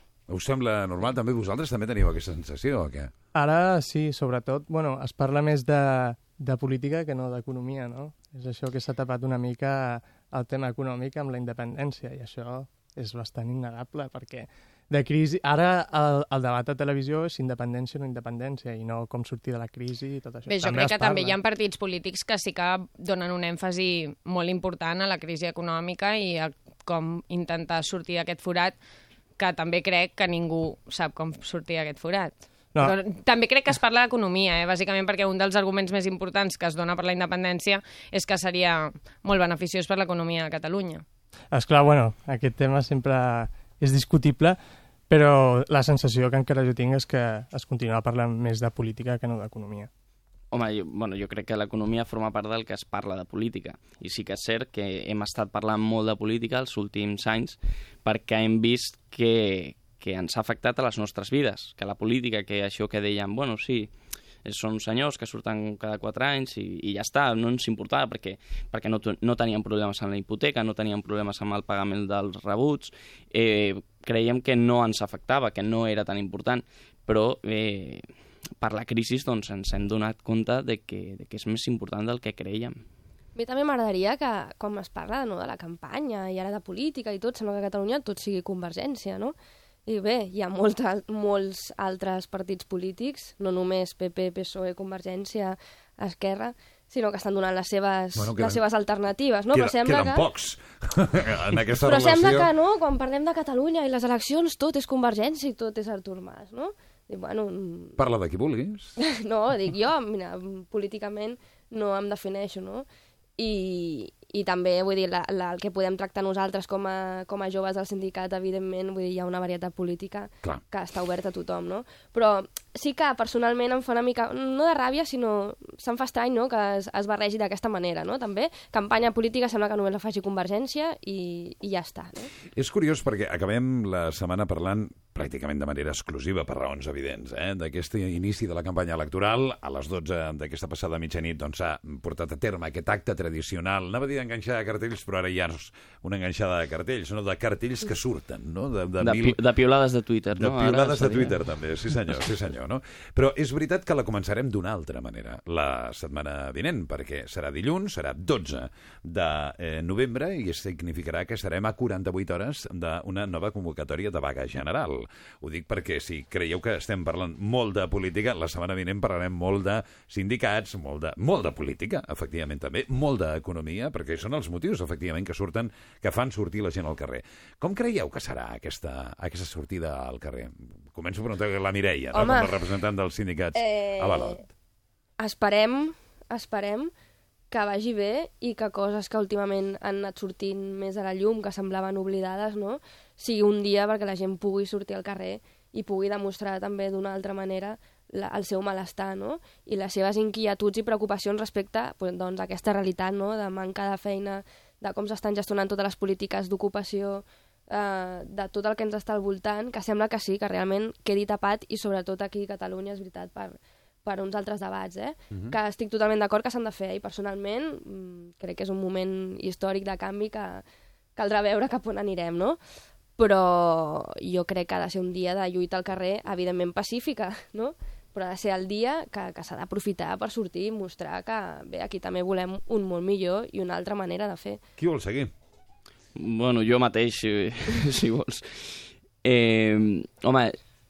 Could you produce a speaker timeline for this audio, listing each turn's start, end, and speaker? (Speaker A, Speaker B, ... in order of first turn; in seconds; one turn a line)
Speaker A: 0.3-3.1
Speaker B: 3.4-21.4
Speaker C: 20.5-28.8
Speaker C: 29.4-41.0
Speaker B: 41.5-44.6
Speaker B: 45.1-49.9
Speaker D: 50.5-63.9
Speaker D: 64.5-78.0
Speaker D: 78.6-82.8
Speaker E: 83.4-89.3
Speaker E: 89.9-100.3
Speaker A: 98.2-98.6
Speaker A: 99.5-102.5
Speaker E: 101.8-108.0
Speaker A: 108.0-109.0
Speaker E: 109.0-112.8
Speaker E: 113.4-132.3
Speaker A: 132.6-149.4
Speaker D: 149.0-151.4
Speaker A: 150.4-184.4
Speaker E: 182.1-182.6
Speaker E: 183.6-184.4
Speaker E: 185.2-186.9
Speaker E: 187.5-220.6
Speaker E: 221.2-222.6
Speaker E: 223.2-234.6
Speaker A: 234.8-235.3
Speaker D: 236.2-240.6